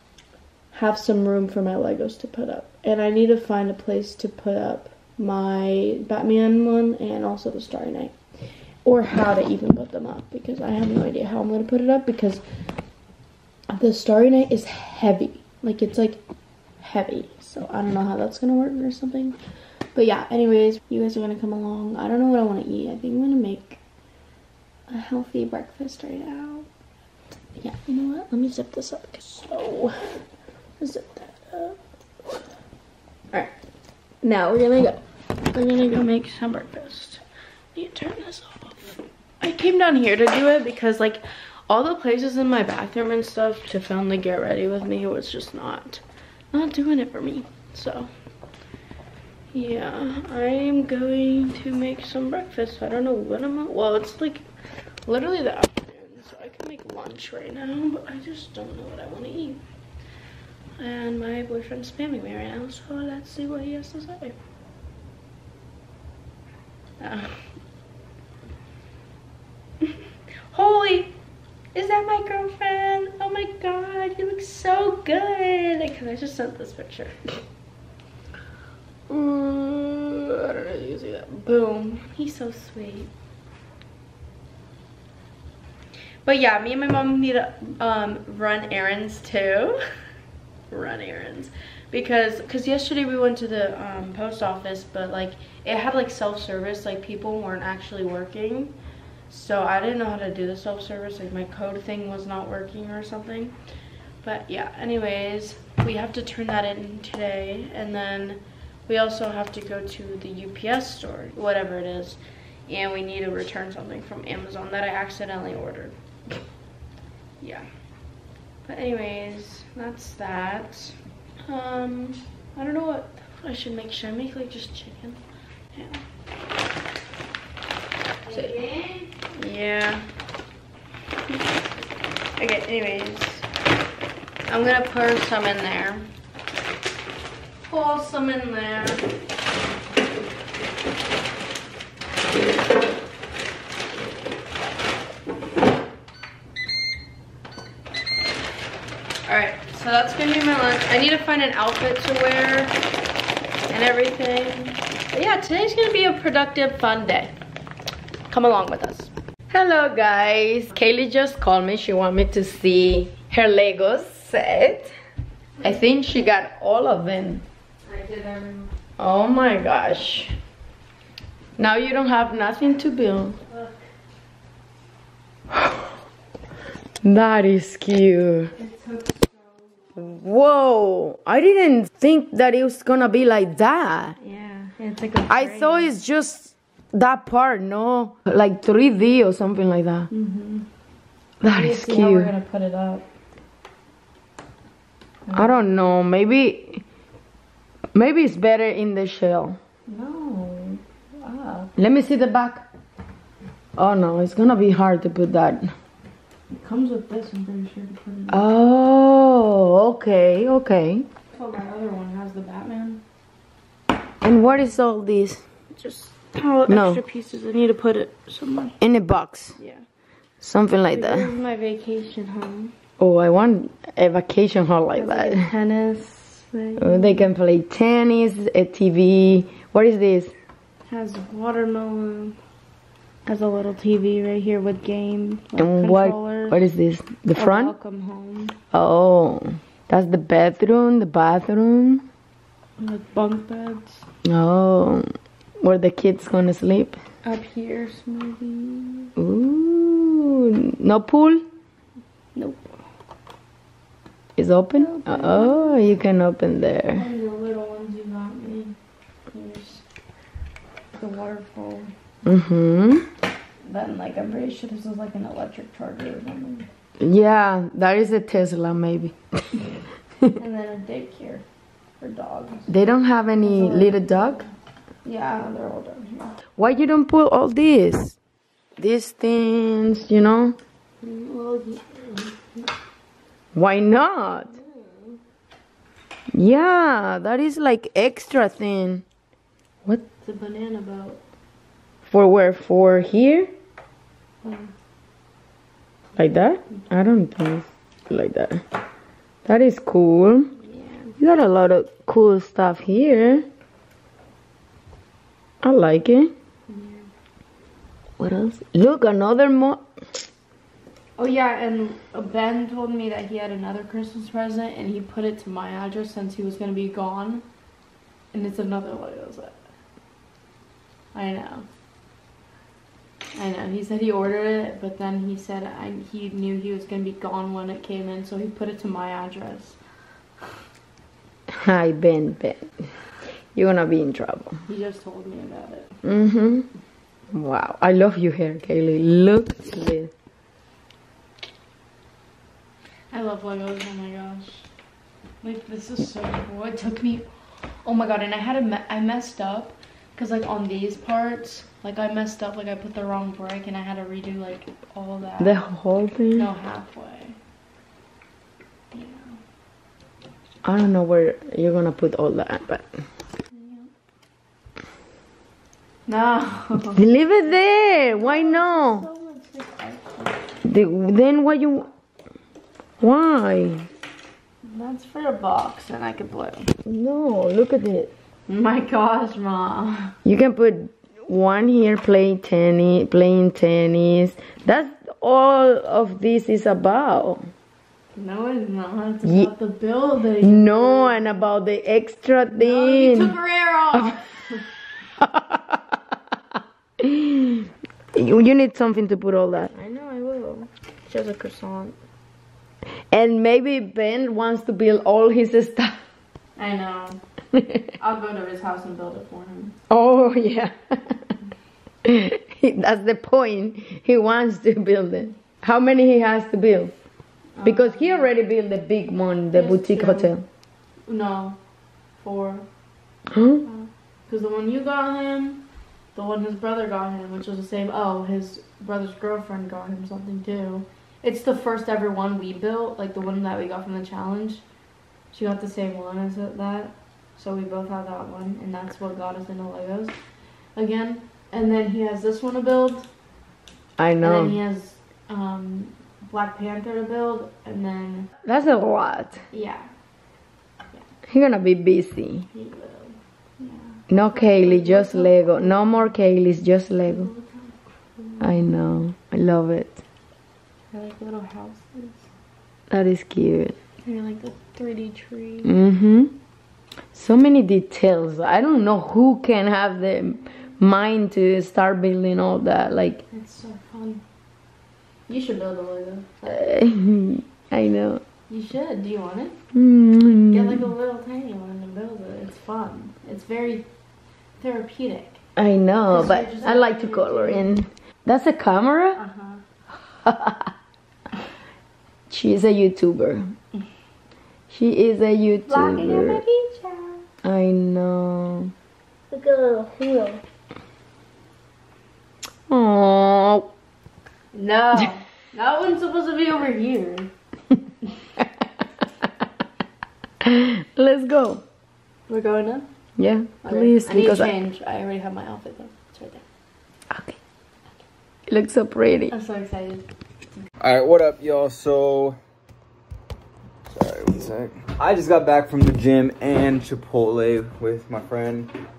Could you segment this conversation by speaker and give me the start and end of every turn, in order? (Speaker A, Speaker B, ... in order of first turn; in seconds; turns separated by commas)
Speaker A: 0.7-8.1, Speaker A: 8.8-12.4, Speaker A: 13.7-16.2, Speaker A: 16.8-19.4, Speaker A: 19.9-23.8, Speaker A: 24.9-26.7, Speaker A: 27.6-30.2, Speaker A: 30.8-31.8, Speaker A: 34.2-35.0, Speaker A: 35.5-37.2, Speaker A: 37.7-48.1, Speaker A: 49.5-54.4, Speaker A: 55.0-59.6, Speaker A: 60.8-64.3, Speaker A: 67.0-67.3, Speaker A: 70.5-71.1, Speaker A: 71.7-77.2, Speaker A: 79.1-83.1, Speaker A: 86.2-89.8, Speaker A: 90.7-98.7, Speaker A: 99.3-103.5, Speaker A: 104.2-116.0, Speaker A: 117.4-117.7, Speaker A: 118.6-121.0, Speaker A: 121.5-125.2, Speaker A: 125.7-126.0, Speaker A: 128.2-130.1, Speaker B: 128.3-129.1, Speaker A: 131.3-131.6, Speaker A: 132.4-133.4, Speaker A: 134.5-136.1, Speaker A: 137.6-139.0, Speaker A: 149.2-152.7, Speaker A: 153.7-157.3, Speaker A: 158.3-159.1, Speaker B: 159.5-164.9, Speaker B: 165.6-167.4, Speaker A: 167.9-168.7, Speaker B: 169.0-170.3, Speaker B: 171.6-173.4, Speaker A: 173.5-173.8, Speaker B: 177.0-178.5, Speaker A: 178.6-179.7, Speaker B: 179.9-184.2, Speaker A: 184.2-185.9, Speaker B: 185.3-190.1, Speaker A: 190.1-190.7, Speaker B: 191.4-192.3, Speaker A: 191.4-193.0, Speaker A: 195.2-195.7, Speaker B: 195.3-196.8, Speaker B: 197.9-199.6, Speaker A: 199.9-201.7, Speaker B: 201.8-202.7, Speaker B: 203.8-205.7, Speaker A: 206.5-208.5, Speaker B: 208.3-211.0, Speaker A: 211.3-213.0, Speaker B: 214.2-215.4, Speaker A: 215.7-218.7, Speaker B: 216.7-217.0, Speaker B: 218.8-219.6, Speaker A: 219.6-219.8, Speaker B: 220.4-221.3, Speaker A: 220.9-222.7, Speaker B: 223.0-225.5, Speaker A: 224.9-227.3, Speaker B: 226.8-230.3, Speaker A: 230.9-232.4, Speaker A: 233.2-236.6, Speaker B: 235.6-237.7, Speaker A: 237.3-238.5, Speaker B: 238.7-242.0, Speaker A: 242.8-244.0, Speaker B: 244.2-245.1, Speaker B: 245.6-247.0, Speaker A: 247.2-249.1, Speaker B: 249.2-251.4, Speaker A: 252.3-252.8, Speaker B: 254.4-257.0, Speaker A: 254.8-255.9, Speaker A: 256.9-258.7, Speaker A: 259.3-259.8, Speaker A: 260.9-261.9, Speaker B: 262.2-263.1, Speaker A: 263.6-266.7, Speaker B: 267.0-269.1, Speaker A: 270.4-271.4, Speaker A: 272.0-272.7, Speaker B: 272.7-274.4, Speaker A: 273.4-274.5, Speaker A: 275.0-276.4, Speaker B: 276.6-278.1, Speaker B: 278.8-280.6, Speaker A: 281.0-282.7, Speaker B: 283.5-284.5, Speaker A: 284.5-285.2, Speaker B: 286.3-289.0, Speaker A: 290.2-291.2, Speaker B: 292.1-293.5, Speaker A: 294.4-294.7, Speaker B: 296.2-298.6, Speaker B: 299.4-300.5, Speaker A: 300.6-301.1, Speaker B: 301.2-303.4, Speaker B: 305.6-306.3, Speaker A: 306.7-307.1, Speaker B: 308.2-309.8, Speaker A: 311.2-317.4, Speaker A: 318.3-319.6, Speaker A: 321.1-321.7, Speaker A: 323.3-329.8, Speaker B: 331.5-332.7, Speaker B: 333.5-334.6, Speaker A: 334.7-335.9, Speaker B: 336.0-336.7, Speaker B: 337.3-340.1, Speaker A: 343.1-344.7, Speaker A: 345.4-347.3, Speaker A: 347.8-355.6, Speaker B: 355.4-356.5, Speaker A: 356.3-357.4, Speaker A: 358.9-359.4, Speaker B: 360.6-362.9, Speaker A: 363.5-363.9, Speaker A: 366.1-367.0, Speaker B: 366.9-369.1, Speaker A: 368.1-370.4, Speaker B: 370.6-371.9, Speaker B: 373.0-373.9, Speaker A: 374.6-376.7, Speaker B: 376.8-378.1, Speaker A: 378.5-380.1, Speaker B: 380.2-387.5, Speaker A: 388.1-391.4, Speaker B: 389.2-389.5, Speaker B: 390.4-393.3, Speaker A: 392.5-394.7, Speaker B: 395.2-395.8, Speaker B: 397.0-399.7, Speaker A: 399.7-401.9, Speaker B: 403.1-406.0, Speaker A: 406.6-407.2, Speaker B: 407.5-407.9, Speaker A: 408.0-409.8, Speaker B: 409.9-411.3, Speaker B: 412.0-416.9, Speaker A: 417.6-418.3, Speaker B: 417.6-420.4, Speaker A: 419.5-420.3, Speaker A: 421.1-421.6, Speaker A: 422.2-422.7, Speaker B: 423.3-423.6, Speaker A: 423.6-434.6, Speaker A: 435.3-440.1, Speaker A: 440.8-443.1, Speaker B: 444.0-444.6, Speaker A: 444.2-448.3, Speaker B: 448.4-449.4, Speaker A: 449.5-449.9, Speaker B: 451.3-452.4, Speaker A: 452.5-456.1, Speaker B: 454.1-457.3, Speaker A: 457.1-458.6, Speaker B: 458.4-460.0, Speaker A: 460.9-462.3, Speaker B: 462.9-463.7, Speaker A: 464.0-465.7, Speaker B: 465.6-466.3, Speaker B: 467.1-473.2, Speaker A: 473.3-474.2, Speaker A: 475.3-476.6, Speaker B: 476.4-478.2, Speaker A: 478.5-479.5, Speaker B: 479.7-480.9, Speaker A: 480.5-483.8, Speaker A: 484.6-485.4, Speaker B: 485.6-489.2, Speaker A: 486.1-487.7, Speaker A: 489.1-489.6, Speaker B: 490.2-490.7, Speaker B: 492.3-493.5, Speaker B: 494.7-496.4, Speaker A: 495.7-497.2, Speaker B: 497.4-498.7, Speaker A: 499.3-500.4, Speaker B: 502.7-503.7, Speaker A: 504.5-507.3, Speaker B: 510.4-511.6, Speaker A: 512.3-512.9, Speaker B: 513.2-514.5, Speaker A: 513.6-516.4, Speaker B: 517.1-517.4, Speaker B: 518.5-519.3, Speaker A: 519.3-520.0, Speaker C: 520.8-522.4, Speaker C: 523.9-528.7